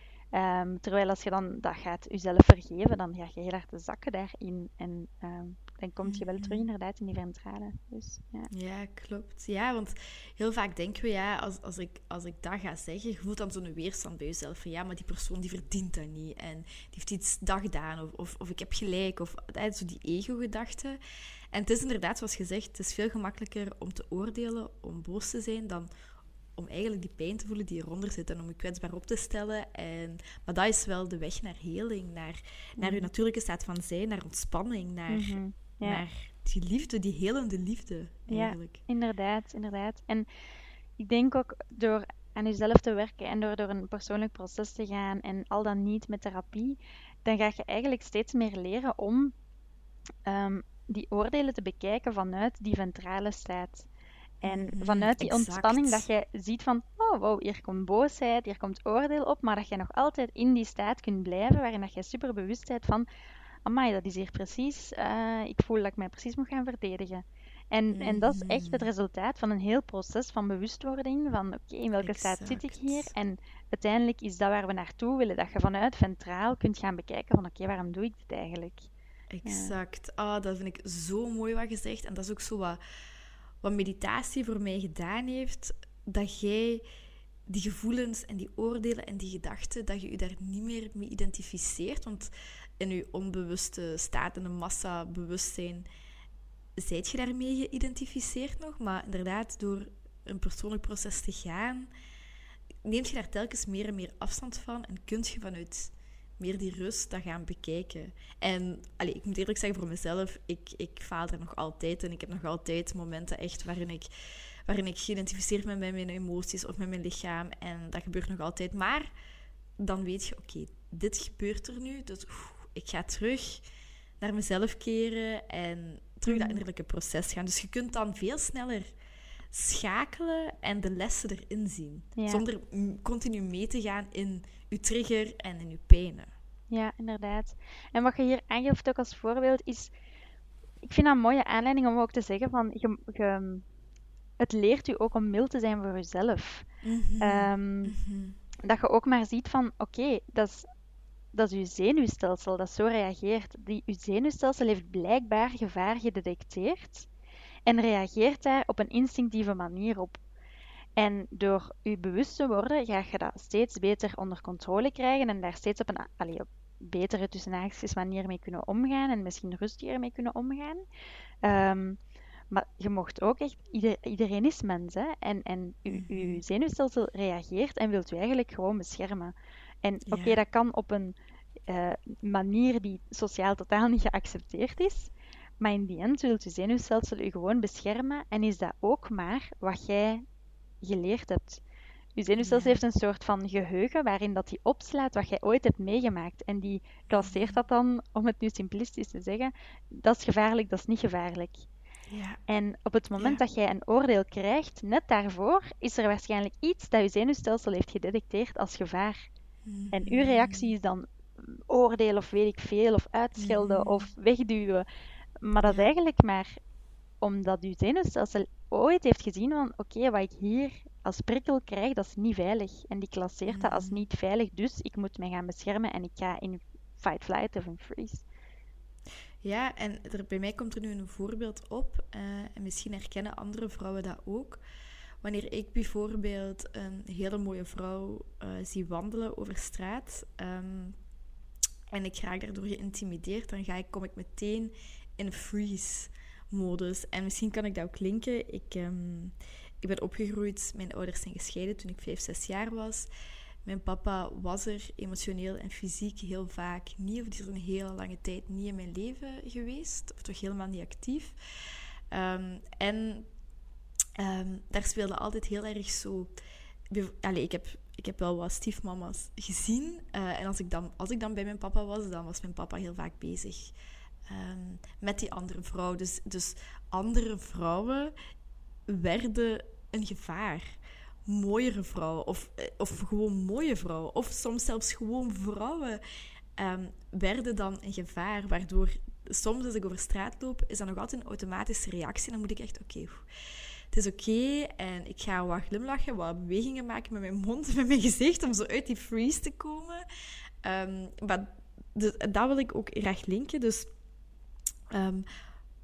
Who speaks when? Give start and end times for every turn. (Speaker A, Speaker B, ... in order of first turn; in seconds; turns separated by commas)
Speaker A: 0.3-8.5, Speaker B: 6.0-6.6, Speaker B: 8.5-21.0, Speaker B: 21.5-25.9, Speaker B: 26.6-38.8, Speaker A: 32.8-33.1, Speaker A: 35.1-36.0, Speaker A: 38.3-40.3, Speaker A: 41.0-49.3, Speaker A: 50.3-53.9, Speaker A: 54.4-63.1, Speaker B: 54.5-56.1, Speaker A: 63.7-78.9, Speaker B: 67.9-68.9, Speaker B: 72.0-73.1, Speaker B: 79.3-82.8, Speaker A: 79.5-79.7, Speaker B: 83.6-86.8, Speaker B: 87.5-95.9, Speaker B: 96.8-101.9, Speaker B: 102.8-114.1, Speaker B: 114.7-119.1, Speaker B: 119.8-123.6, Speaker B: 124.2-128.9, Speaker A: 126.3-126.6, Speaker B: 129.5-136.3, Speaker A: 132.2-132.4, Speaker A: 136.7-139.9, Speaker A: 140.8-143.7, Speaker A: 144.4-146.7, Speaker B: 146.8-148.4, Speaker A: 147.2-147.9, Speaker A: 148.6-150.7, Speaker A: 151.3-157.1, Speaker A: 157.7-160.2, Speaker A: 161.0-170.8, Speaker A: 171.4-172.0, Speaker A: 172.5-181.2, Speaker B: 175.9-176.4, Speaker B: 180.1-180.4, Speaker A: 181.7-190.2, Speaker A: 190.8-191.6, Speaker A: 192.2-201.7, Speaker B: 192.4-192.8, Speaker B: 197.1-197.6, Speaker B: 202.1-202.4, Speaker A: 202.5-209.3, Speaker B: 209.7-210.7, Speaker A: 209.9-214.8, Speaker B: 213.4-214.1, Speaker A: 215.4-216.6, Speaker A: 217.2-228.2, Speaker B: 223.5-224.1, Speaker B: 229.4-234.6, Speaker B: 235.2-241.0, Speaker B: 241.9-253.1, Speaker B: 253.7-261.4, Speaker B: 262.1-263.3, Speaker B: 264.2-266.3, Speaker B: 266.9-273.7, Speaker B: 274.3-278.1, Speaker B: 278.9-286.0, Speaker B: 286.6-293.3, Speaker B: 293.9-300.0, Speaker B: 300.6-303.9, Speaker B: 304.9-305.2